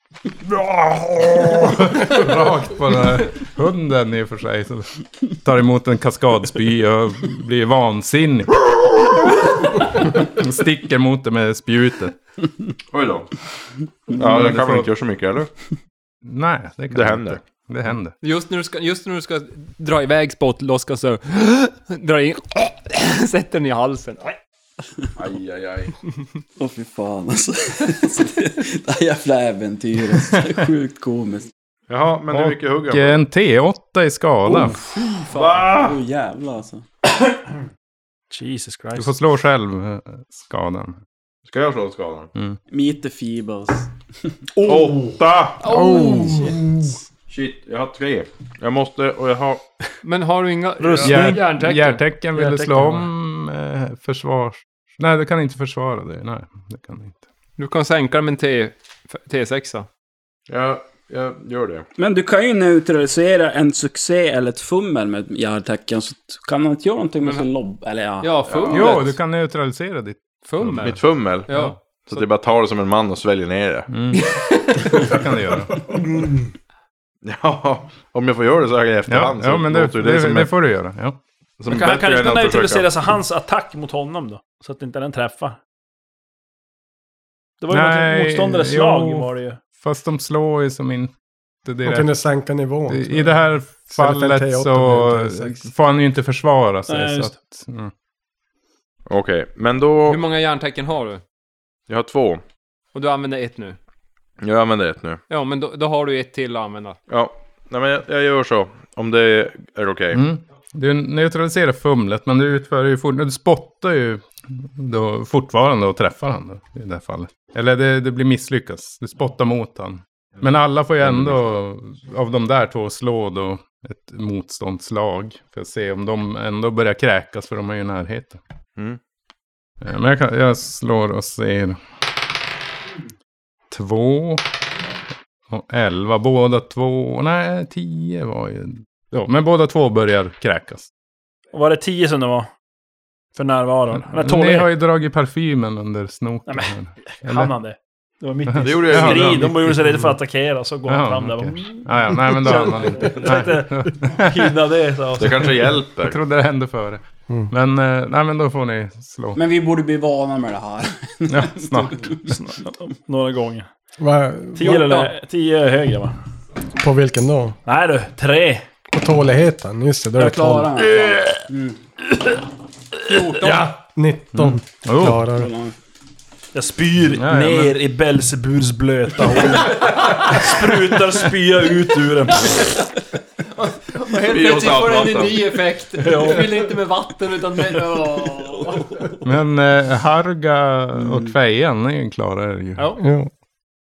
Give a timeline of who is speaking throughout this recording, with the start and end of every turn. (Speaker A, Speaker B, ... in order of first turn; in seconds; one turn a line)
Speaker A: 0.4-12.2
Speaker B: 12.9-13.3
Speaker B: 14.1-15.5
Speaker A: 14.2-14.9
Speaker A: 16.2-18.1
Speaker B: 16.9-17.4
Speaker C: 18.2-24.4
Speaker B: 25.2-25.9
Speaker D: 26.6-31.5
Speaker B: 31.9-33.2
Speaker A: 32.3-34.8
Speaker B: 34.5-36.0
Speaker C: 35.3-35.6
Speaker D: 35.7-36.8
Speaker E: 38.3-39.1
Speaker A: 39.0-41.0
Speaker B: 41.5-42.3
Speaker D: 42.7-43.9
Speaker B: 44.6-45.7
Speaker E: 44.6-45.1
Speaker C: 45.6-46.6
Speaker A: 45.7-46.4
Speaker E: 45.8-46.5
Speaker B: 47.3-49.6
Speaker C: 50.0-52.0
Speaker E: 50.8-51.5
Speaker A: 51.0-57.2
Speaker E: 52.4-53.1
Speaker C: 57.6-59.9
Speaker B: 60.5-61.9
Speaker D: 62.0-68.7
Speaker C: 68.2-69.2
Speaker B: 68.5-68.9
Speaker A: 68.7-71.0
Speaker C: 70.5-71.0
Speaker B: 70.8-71.5
Speaker C: 71.5-72.2
Speaker B: 72.1-73.9
Speaker A: 73.9-74.3
Speaker C: 74.1-75.2
Speaker A: 74.8-75.9
Speaker B: 77.2-80.5
Speaker A: 79.1-81.2
Speaker B: 81.6-82.9
Speaker E: 81.7-85.6
Speaker E: 87.6-89.6
Speaker A: 87.7-91.1
Speaker A: 91.7-92.1
Speaker F: 91.9-95.7
Speaker A: 92.9-97.9
Speaker E: 96.9-97.4
Speaker B: 99.1-100.2
Speaker C: 100.1-101.2
Speaker B: 101.9-102.4
Speaker C: 102.9-103.8
Speaker B: 104.4-105.2
Speaker C: 105.3-107.0
Speaker B: 107.1-110.2
Speaker A: 110.1-128.4
Speaker B: 121.0-121.4
Speaker A: 129.8-131.8
Speaker A: 133.7-134.4
Speaker A: 135.5-140.9
Speaker E: 141.5-142.5
Speaker E: 143.3-144.7
Speaker A: 144.0-147.5
Speaker E: 146.5-155.7
Speaker A: 148.5-150.0
Speaker B: 148.6-149.5
Speaker A: 150.9-154.5
Speaker B: 155.2-156.2
Speaker A: 156.0-159.4
Speaker D: 159.3-162.1
Speaker A: 161.3-162.3
Speaker E: 162.2-163.7
Speaker F: 164.0-164.9
Speaker E: 164.6-166.2
Speaker F: 166.8-167.6
Speaker E: 167.7-168.7
Speaker F: 168.9-170.7
Speaker D: 170.2-171.8
Speaker C: 173.1-173.7
Speaker F: 173.4-175.5
Speaker A: 174.3-175.2
Speaker D: 175.3-175.8
Speaker E: 176.5-182.6
Speaker A: 177.2-177.8
Speaker C: 179.8-180.3
Speaker C: 183.6-189.1
Speaker B: 184.2-185.4
Speaker E: 186.0-186.4
Speaker A: 189.2-192.9
Speaker F: 193.0-193.3